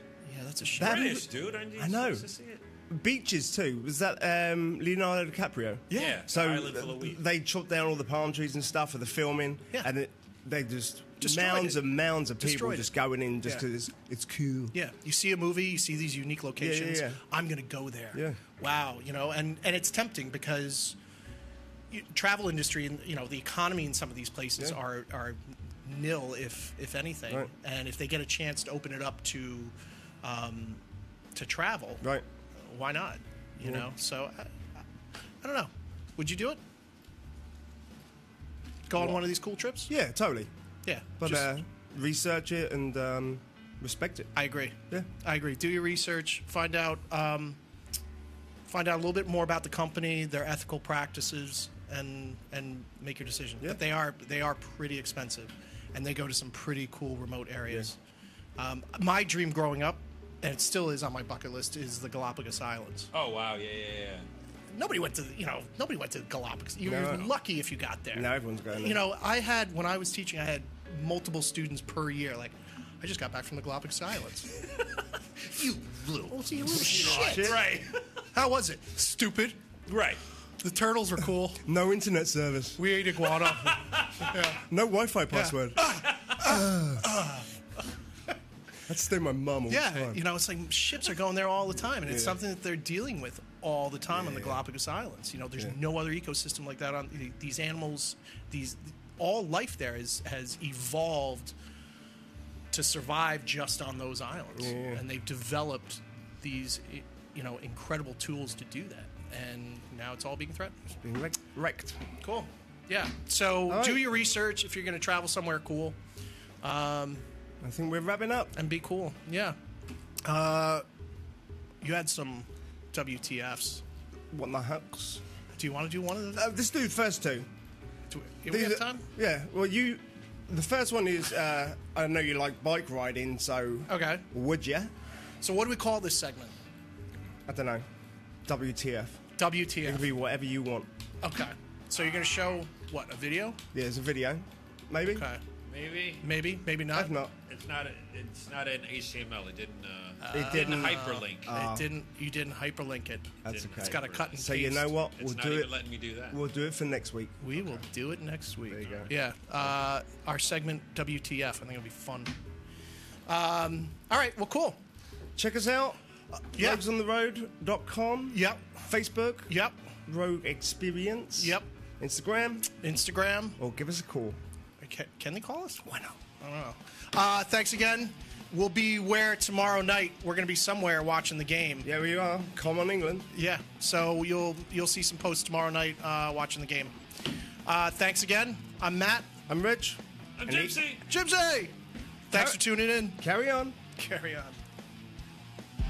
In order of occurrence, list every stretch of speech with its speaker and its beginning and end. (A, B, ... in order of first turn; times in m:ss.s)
0:00.2-0:01.2 A
0:00.8-0:02.2 B
0:00.8-0:02.6 C
0:02.9-0:14.7 B
0:05.9-0:06.2 A
0:05.9-0:07.2 C
0:11.2-0:11.9 A
0:12.4-0:12.9 A
0:14.7-0:21.0 A
0:16.6-0:17.2 B
0:18.1-0:18.4 B
0:21.9-0:30.8 A
0:31.3-0:32.0 A
0:32.6-0:34.8 A
0:35.4-0:36.6 A
0:38.9-0:39.9 A
0:39.9-0:40.5 B
0:40.8-0:41.5 A
0:41.2-0:44.3 B
0:44.3-0:47.6 A
0:48.7-0:58.0 A
0:58.6-1:03.1 A
1:03.1-1:04.3 C
1:04.7-1:08.3 A
1:06.8-1:07.3 B
1:08.1-1:09.0 B
1:08.8-1:14.6 A
1:15.4-1:17.6 A
1:15.5-1:18.0 C
1:16.7-1:17.6 B
1:18.3-1:19.6 A
1:19.9-1:20.2 C
1:20.6-1:21.6 A
1:21.6-1:22.8 B
1:22.8-1:24.6 A
1:23.5-1:24.4 C
1:24.6-1:27.1 B
1:25.3-1:27.5 A
1:28.9-1:30.2 B
1:29.7-1:41.5 A
1:32.0-1:32.4 B
1:34.1-1:34.6 B
1:42.7-1:50.8 A
1:44.5-1:45.0 B
1:51.0-1:52.0 B
1:52.2-1:56.0 A
1:53.7-1:54.0 B
1:56.6-1:57.2 A
1:57.6-1:58.5 B
1:58.5-1:59.6 A
2:00.2-2:00.8 A
2:01.8-2:03.8 A
2:04.3-2:05.2 B
2:05.5-2:06.5 A
2:06.3-2:07.5 B
2:08.1-2:09.0 A
2:08.5-2:14.9 B
2:13.9-2:14.2 A
2:15.4-2:16.5 A
2:17.5-2:17.8 B
2:18.4-2:19.2 B
2:19.4-2:20.1 A
2:19.8-2:20.9 B
2:21.2-2:23.6 A
2:23.7-2:25.2 B
2:25.0-2:25.4 A
2:25.7-2:26.3 C
2:26.2-2:27.1 A
2:26.9-2:27.3 B
2:27.4-2:31.5 C
2:30.2-2:34.9 A
2:30.3-2:31.9 B
2:33.4-2:35.7 B
2:33.5-2:34.3 C
2:35.2-2:36.4 C
2:36.3-2:37.7 B
2:37.4-2:42.4 A
2:38.7-2:39.1 B
2:43.3-2:44.8 A
2:45.4-2:46.0 B
2:46.4-2:46.8 A
2:46.6-2:49.5 B
2:48.3-2:48.7 A
2:49.5-2:49.8 A
2:50.1-2:52.7 B
2:51.4-2:51.7 A
2:52.8-2:53.6 A
2:53.6-2:54.4 B
2:54.8-3:01.9 A
3:01.8-3:03.3 B
3:03.3-3:06.9 A
3:07.6-3:09.3 A
3:09.5-3:10.8 B
3:10.4-3:11.0 C
3:11.0-3:11.7 A
3:12.3-3:13.2 A
3:12.3-3:13.8 B
3:14.0-3:14.6 A